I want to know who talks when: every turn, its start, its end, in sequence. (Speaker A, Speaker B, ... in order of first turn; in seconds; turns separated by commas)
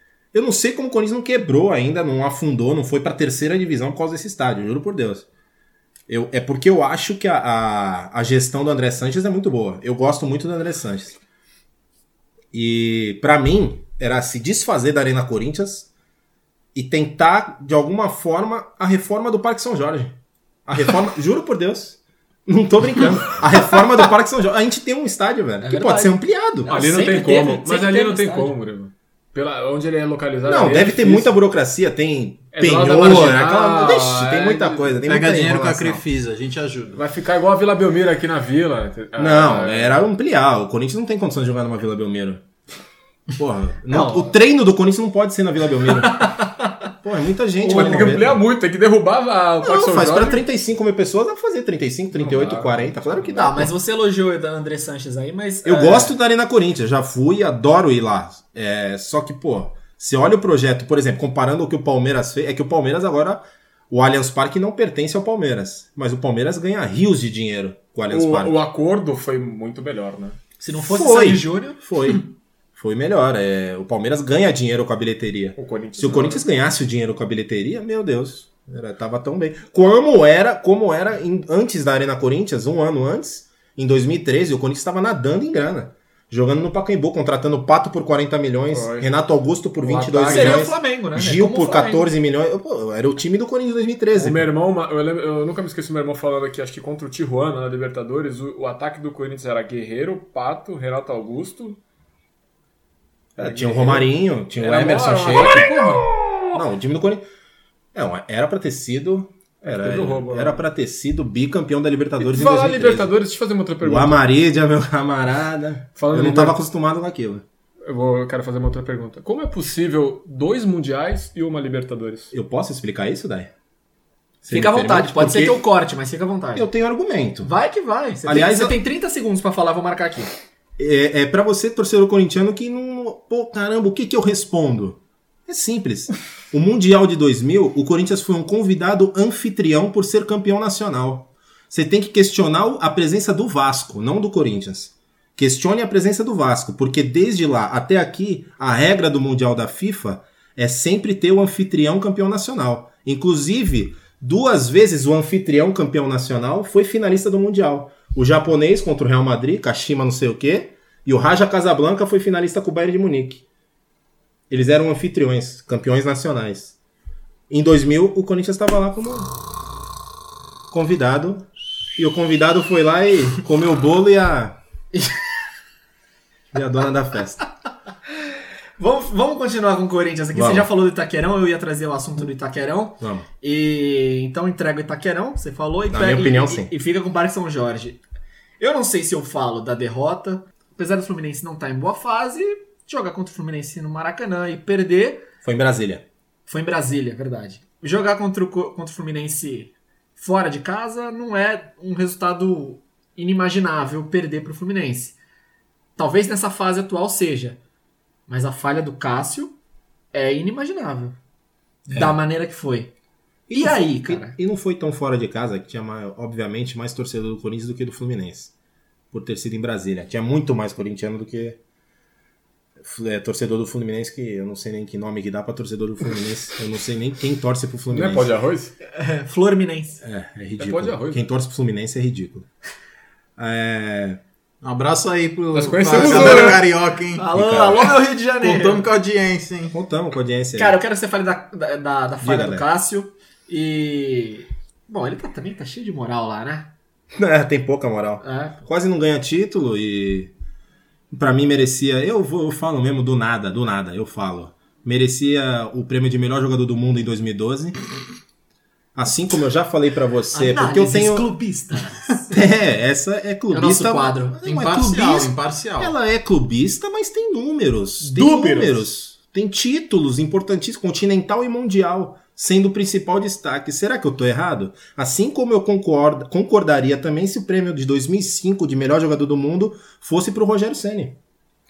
Speaker A: 0.3-5.2, Speaker A: 6.1-11.2, Speaker A: 12.5-15.9, Speaker A: 16.7-20.1, Speaker A: 20.6-26.7, Speaker B: 25.6-28.5, Speaker C: 26.7-31.4, Speaker A: 30.4-36.0, Speaker C: 32.5-35.0, Speaker D: 35.0-37.0, Speaker C: 36.9-40.0, Speaker A: 39.1-42.4, Speaker A: 43.4-46.4, Speaker B: 43.9-44.3, Speaker B: 46.1-46.8, Speaker A: 47.0-48.4, Speaker B: 47.6-48.2, Speaker C: 47.6-50.4, Speaker A: 49.6-53.7, Speaker C: 52.1-53.2, Speaker B: 53.3-56.1, Speaker A: 55.6-68.6, Speaker C: 68.1-70.4, Speaker B: 70.6-71.8, Speaker A: 70.7-94.5, Speaker C: 75.6-76.4, Speaker C: 88.7-89.1, Speaker C: 89.8-90.7, Speaker B: 90.3-92.1, Speaker C: 94.1-101.8, Speaker A: 103.3-105.7, Speaker C: 103.4-106.4, Speaker A: 106.5-107.2, Speaker A: 107.9-113.1, Speaker C: 109.6-110.6, Speaker C: 112.2-114.2, Speaker A: 113.8-117.4, Speaker C: 116.0-116.6, Speaker C: 117.8-122.3, Speaker A: 122.3-123.5, Speaker A: 124.4-125.6, Speaker B: 124.5-126.7, Speaker A: 126.5-127.5, Speaker B: 127.4-130.3, Speaker A: 128.2-128.8, Speaker A: 130.8-163.4, Speaker A: 164.5-166.8, Speaker A: 167.5-169.3, Speaker A: 170.7-174.6, Speaker A: 176.5-177.4, Speaker B: 178.8-188.0, Speaker A: 180.3-180.7, Speaker A: 183.0-183.2, Speaker A: 185.9-186.7, Speaker B: 188.6-195.3, Speaker A: 195.4-196.0, Speaker B: 196.5-205.2, Speaker B: 205.9-207.6, Speaker B: 208.3-209.6, Speaker B: 210.1-211.2, Speaker B: 211.9-212.9, Speaker A: 211.9-212.1, Speaker A: 213.5-218.5, Speaker B: 213.5-214.3, Speaker A: 219.1-221.6, Speaker A: 222.8-228.3, Speaker C: 227.9-228.7, Speaker B: 228.9-230.0, Speaker A: 230.0-232.4, Speaker C: 230.6-231.2, Speaker A: 233.4-234.2, Speaker D: 234.6-237.3, Speaker C: 235.5-236.6, Speaker A: 236.0-236.4, Speaker B: 236.3-236.5, Speaker B: 237.2-238.9, Speaker A: 237.3-238.0, Speaker D: 238.4-239.7, Speaker A: 239.7-240.8, Speaker B: 240.6-246.7, Speaker A: 242.2-242.6, Speaker A: 247.1-250.3, Speaker B: 248.2-248.6, Speaker A: 251.1-257.8, Speaker A: 258.9-261.2, Speaker B: 260.3-262.2, Speaker A: 262.3-281.1, Speaker B: 263.5-264.4, Speaker D: 264.4-265.9, Speaker B: 268.0-268.9